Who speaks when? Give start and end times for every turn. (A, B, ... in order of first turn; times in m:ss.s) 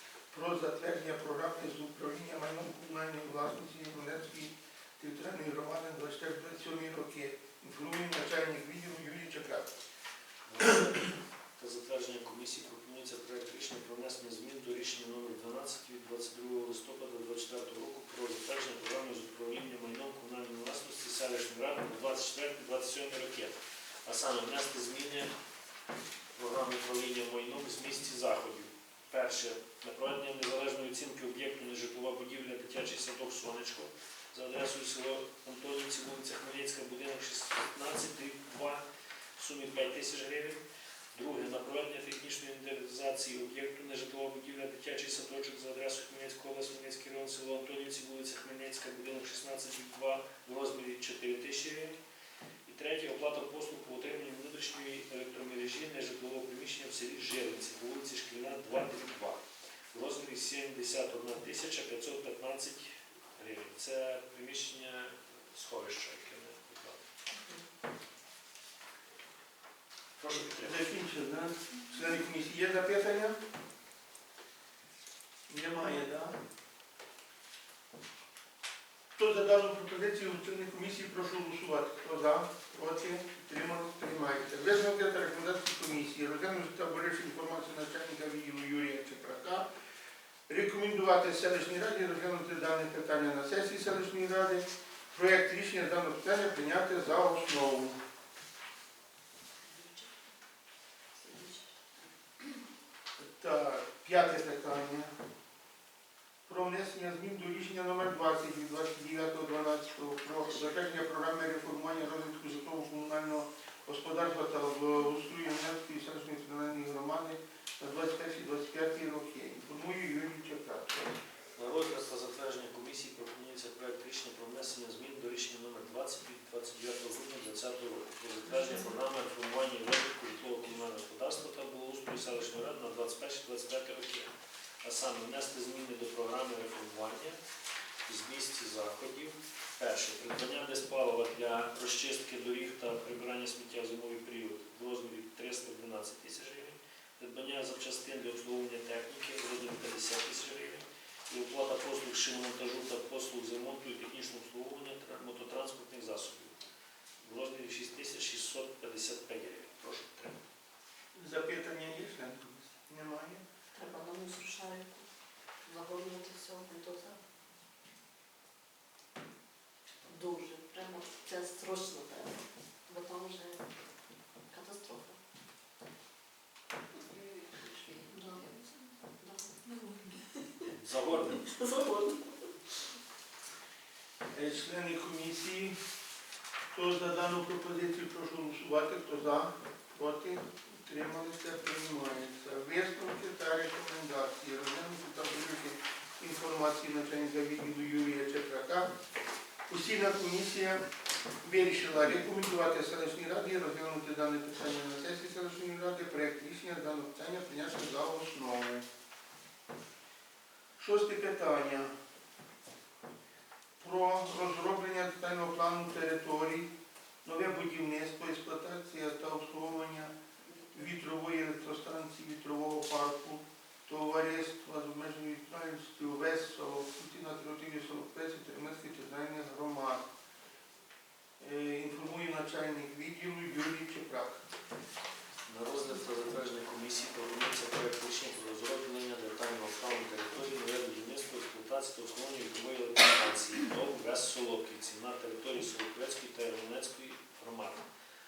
0:00.3-0:09.8 A
0:10.5-0:25.3 B
0:26.4-0:38.8 B
0:39.4-0:40.6 B
0:41.1-0:52.0 B
0:52.7-0:59.4 B
0:59.9-1:07.0 B
1:10.2-1:10.8 B
1:10.3-1:13.4 A
1:15.5-1:16.4 A
1:19.2-1:29.7 A
1:30.5-1:38.0 A
1:39.6-1:40.3 C
1:41.2-1:42.6 C
1:43.2-1:45.1 A
1:46.5-2:01.2 A
2:01.6-2:14.3 B
2:14.8-2:17.4 B
2:18.1-2:36.6 B
2:37.2-2:40.4 B
2:41.2-2:43.4 A
2:43.7-2:45.1 C
2:45.7-2:47.2 C
2:50.1-2:53.6 C
2:54.5-2:55.2 C
2:57.1-2:58.6 C
2:59.2-3:02.5 C
3:00.8-3:01.4 B
3:04.3-3:05.8 A
3:06.7-3:18.9 A
3:19.7-3:20.8 A
3:21.4-3:28.9 A
3:30.8-3:31.9 A
3:33.8-3:36.7 A
3:37.2-3:40.1 A
3:40.7-3:50.0 A
3:51.4-3:54.4 A
3:55.5-4:07.9 B